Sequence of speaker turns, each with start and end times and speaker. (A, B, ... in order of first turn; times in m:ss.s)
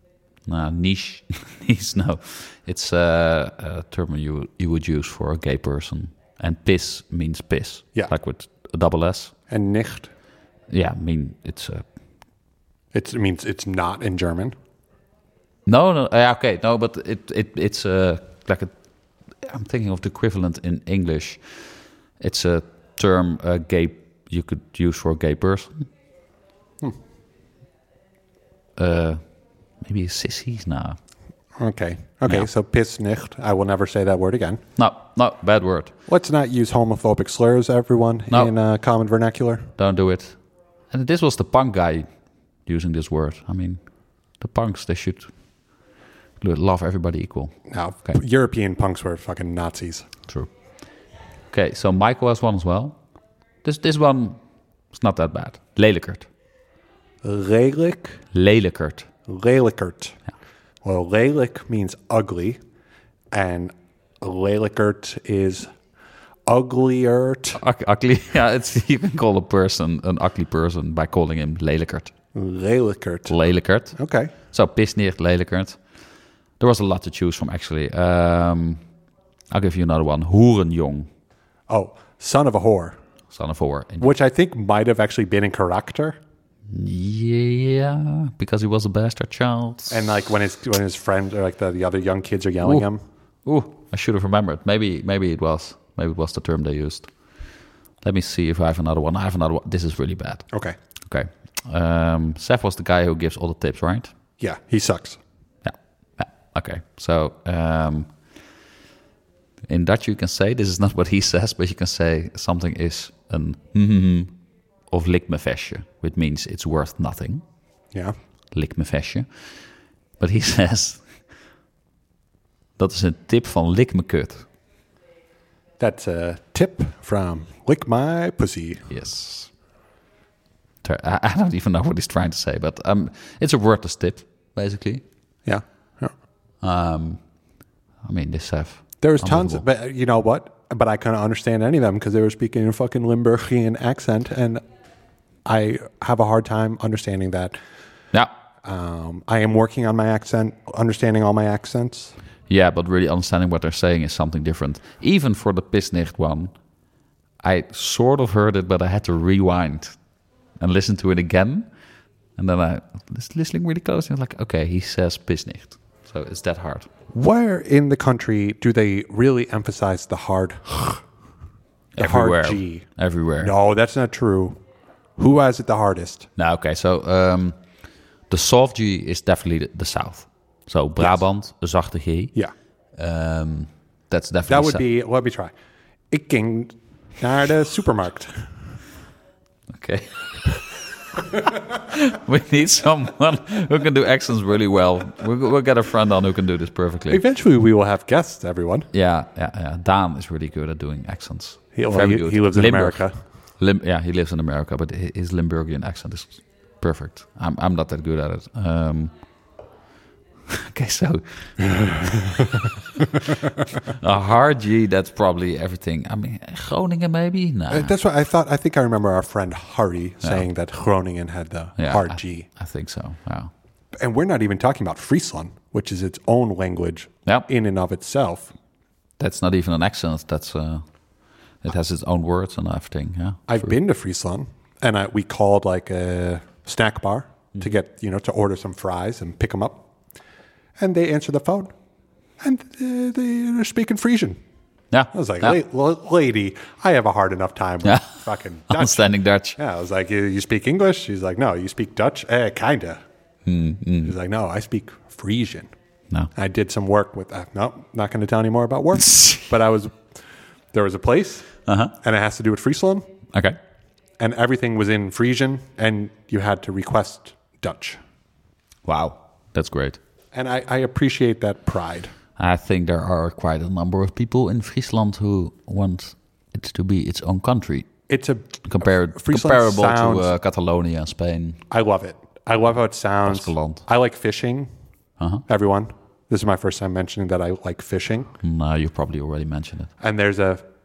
0:00.5-0:09.3 A
0:09.5-0:10.1 B
0:10.7-0:11.9 A
0:12.9-0:14.5 B
0:15.7-0:18.7 A
0:19.4-0:21.4 A
0:22.2-0:25.9 A
0:28.8-0:29.2 A
0:29.8-0:31.0 A
0:31.6-0:34.6 B
0:34.8-0:35.9 A
0:36.1-0:39.7 B
0:39.8-0:40.4 A
0:40.9-0:42.1 A
0:42.7-0:43.8 A
0:44.4-0:45.3 A
0:46.4-0:48.2 A
0:47.7-0:50.1 B
0:51.5-0:53.0 A
0:53.6-0:54.4 A
0:54.9-0:56.3 A
0:57.2-0:58.2 B
0:58.3-0:59.1 A
0:59.3-1:00.2 B
1:00.8-1:02.6 B
1:03.3-1:05.7 B
1:06.5-1:07.6 B
1:07.6-1:12.1 A
1:12.3-1:13.4 B
1:13.3-1:14.0 A
1:14.0-1:14.3 B
1:14.5-1:15.8 A
1:16.6-1:18.8 A
1:19.5-1:21.1 A
1:21.7-1:23.0 B
1:23.3-1:24.1 A
1:24.0-1:26.2 B
1:26.7-1:30.2 A
1:29.9-1:33.0 B
1:33.4-1:37.1 A
1:38.0-1:40.5 A
1:41.1-1:44.1 A
1:44.4-1:45.2 B
1:45.6-1:48.1 A
1:49.7-1:54.4 A
1:54.9-1:57.4 A
1:58.5-1:59.3 A
2:00.2-2:01.1 A
2:02.8-2:04.5 A
2:05.8-2:08.9 B
2:08.9-2:09.5 A
2:10.8-2:15.0 A
2:15.5-2:16.1 B
2:16.6-2:17.2 A
2:18.0-2:19.6 A
2:19.0-2:24.6 B
2:25.5-2:27.6 B
2:28.6-2:32.1 B
2:32.5-2:36.5 A
2:37.4-2:40.0 A
2:40.6-2:41.7 A
2:42.4-2:46.9 A
2:47.1-2:51.0 B
2:52.0-2:53.5 A
2:52.0-2:52.9 B
2:53.4-2:54.6 B
2:55.2-2:56.3 B
2:56.4-2:57.6 A
2:58.3-3:02.3 A
3:03.0-3:04.8 A
3:04.5-3:05.5 B
3:06.1-3:08.5 B
3:09.7-3:10.8 A
3:11.4-3:17.2 A
3:17.1-3:18.9 B
3:18.9-3:23.0 A
3:21.7-3:23.2 B
3:23.6-3:29.1 A
3:30.5-3:32.1 A
3:31.6-3:32.7 B
3:33.8-3:37.9 A
3:37.7-3:42.5 B
3:41.8-3:43.5 A
3:44.0-3:48.5 B
3:49.2-3:50.8 A
3:51.6-3:53.7 A
3:53.5-3:59.9 B
4:00.8-4:01.7 B
4:02.4-4:04.4 B
4:04.9-4:05.6 A
4:05.1-4:13.0 B
4:08.7-4:09.6 A
4:13.4-4:14.1 A
4:14.0-4:15.7 B
4:16.3-4:20.2 B
4:19.1-4:19.4 A
4:20.7-4:23.1 B
4:21.7-4:21.9 A
4:24.2-4:28.0 B
4:28.9-4:30.0 A
4:30.3-4:32.1 B
4:32.4-4:37.9 A
4:38.1-4:40.3 B
4:38.6-4:41.6 A
4:41.7-4:44.7 B
4:43.3-4:43.8 A
4:45.5-4:48.3 B
4:48.4-4:49.9 A
4:50.0-4:50.6 B